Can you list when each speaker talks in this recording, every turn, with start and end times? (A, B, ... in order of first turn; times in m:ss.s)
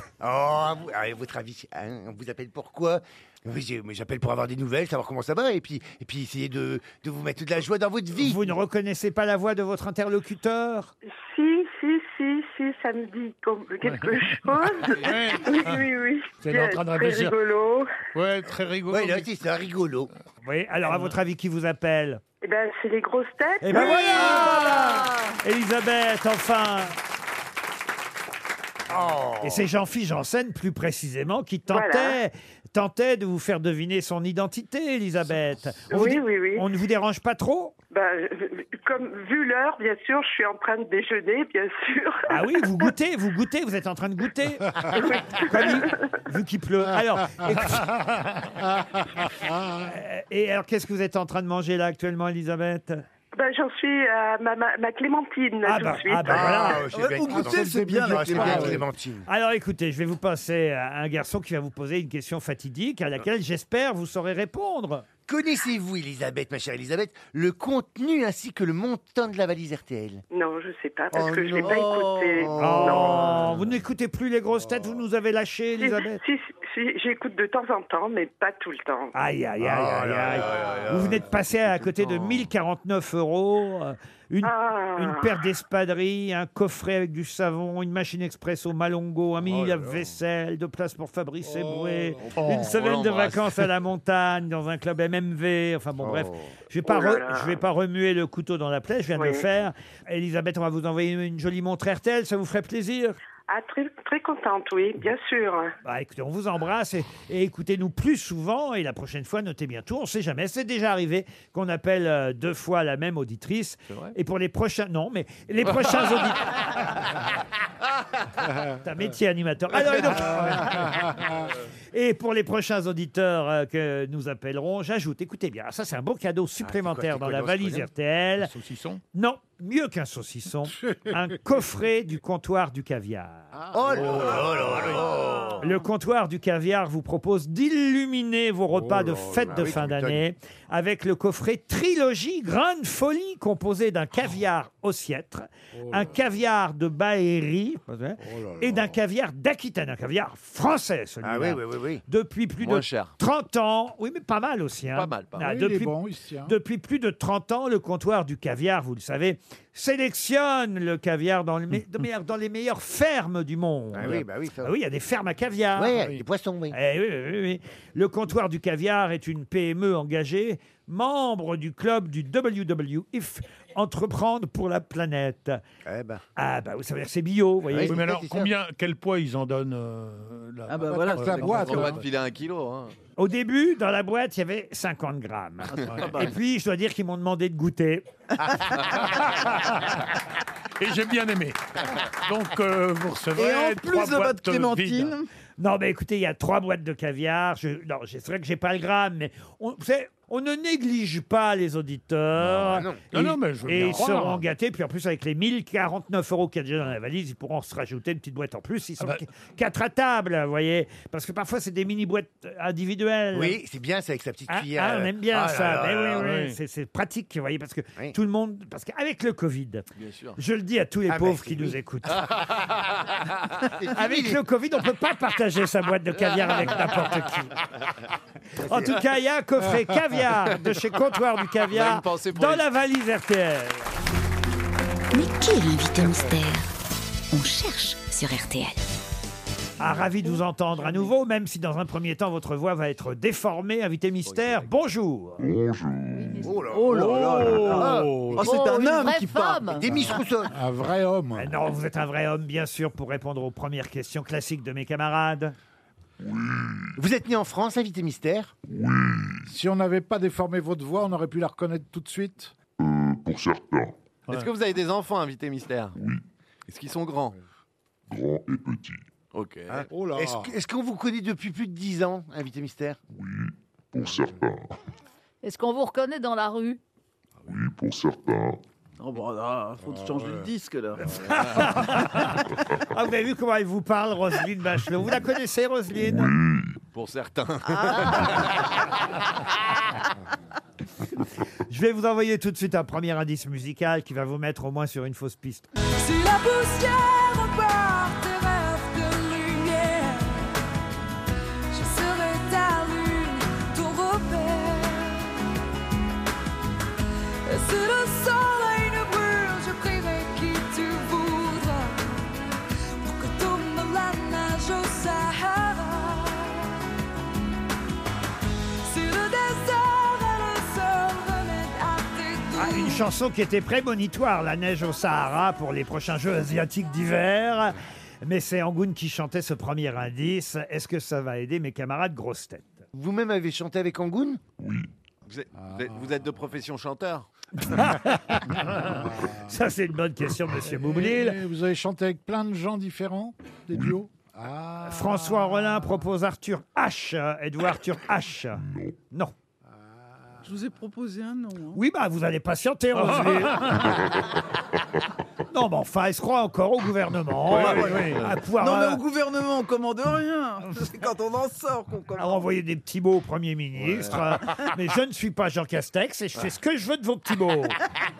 0:00.2-0:08.5 A
0:08.2-0:10.9 B
0:11.1-0:17.9 C
0:13.8-0:15.8 D
0:16.4-0:17.3 D
0:18.1-0:19.3 D
0:18.9-0:20.1 A
0:20.4-0:22.2 B
0:22.4-0:24.6 C
0:23.6-0:27.0 B
0:23.9-0:25.3 E
0:28.9-0:29.7 A
0:29.4-0:37.7 B
0:31.7-0:32.2 C
0:35.9-0:36.6 C
0:37.9-0:42.9 C
0:42.3-0:47.9 B
0:44.9-0:46.0 C
0:49.7-0:53.0 B
0:53.3-0:56.7 C
0:55.6-0:56.9 B
0:56.2-0:59.3 A
0:56.9-0:58.8 F
0:57.3-0:58.8 G
0:59.3-1:05.0 B
1:05.3-1:10.2 A
1:10.3-1:13.2 C
1:11.1-1:13.5 A
1:12.6-1:16.2 B
1:15.8-1:19.1 C
1:19.1-1:43.2 B
1:19.6-1:21.2 A
1:24.4-1:25.3 C
1:29.5-1:30.0 G
1:31.4-1:32.2 G
1:32.2-1:33.6 H
1:32.4-1:32.7 D
1:36.0-1:36.5 A
1:36.8-1:37.6 C
1:39.2-1:39.4 C
1:43.5-1:45.7 C
1:45.8-1:56.9 B
1:58.8-2:01.0 B
2:00.4-2:01.1 G
2:01.9-2:08.5 B
2:06.6-2:07.9 A
2:08.4-2:09.0 D
2:09.1-2:13.5 B
2:13.7-2:15.6 A
2:15.6-2:46.0 B
2:18.7-2:19.5 G
2:19.5-2:20.2 A
2:25.7-2:26.1 G
2:28.2-2:28.9 G
2:31.2-2:32.0 A
2:32.6-2:33.1 H
2:34.9-2:35.4 H
2:35.4-2:36.5 G
2:43.9-2:44.7 A
2:45.8-2:46.8 A
2:46.7-2:55.6 B
2:55.8-2:56.2 A
2:56.4-2:58.0 B
2:57.7-2:58.5 A
2:57.8-3:02.0 D
3:00.7-3:02.0 F
3:00.9-3:01.9 G
3:01.6-3:02.9 H
3:03.2-3:08.0 B
3:09.0-3:10.0 D
3:10.8-3:15.1 D
3:13.3-3:15.3 F
3:15.6-3:33.6 B
3:22.4-3:23.0 A
3:23.1-3:24.4 D
3:33.3-3:36.3 A
3:34.5-3:42.2 B
3:36.2-3:36.6 D
3:40.0-3:40.4 H
3:41.1-3:41.8 A
3:43.6-3:44.4 A
3:43.9-3:47.6 B
3:48.6-3:53.9 B
3:48.6-3:49.0 A
3:51.7-3:52.6 H
3:55.1-3:56.7 I
3:57.3-3:58.8 I
3:59.8-4:05.5 B
4:04.2-4:04.7 H
4:05.4-4:06.3 J
4:06.1-4:06.6 E
4:06.4-4:09.0 A
4:06.7-4:09.8 F
4:06.9-4:08.4 G
4:08.4-4:10.0 E
4:09.8-4:10.5 A
4:09.8-4:11.5 G
4:11.4-4:15.5 B
4:17.0-4:18.5 A
4:18.7-4:19.4 J
4:19.5-4:22.5 G
4:22.8-4:23.9 J
4:24.3-4:26.0 H
4:26.7-4:27.4 H
4:28.1-4:29.0 J
4:29.3-4:29.8 H
4:29.7-4:33.0 A
4:29.9-4:30.5 G
4:33.2-4:34.7 J
4:35.4-4:36.8 E
4:37.5-4:38.6 J
4:39.0-4:41.5 F
4:39.8-4:40.4 G
4:41.2-4:46.3 B
4:46.2-4:46.7 J
4:46.9-4:48.6 H
4:47.6-4:48.5 F
4:51.7-4:55.7 B
4:56.0-5:00.5 K
5:01.7-5:05.4 K
5:07.4-5:12.4 K
5:13.0-5:16.8 K
5:18.8-5:23.0 K
5:22.6-5:32.8 B
5:32.9-5:34.4 A
5:34.6-5:34.9 J
5:35.3-5:37.3 H
5:37.6-5:38.7 B
5:38.9-5:39.4 G
5:39.4-5:41.4 B
5:40.6-5:45.9 G
5:44.8-5:49.3 B
5:50.4-5:51.8 F
5:51.7-5:53.8 B
5:53.0-5:53.9 D
5:55.5-5:59.0 B
5:58.5-6:02.4 F
6:02.2-6:07.8 B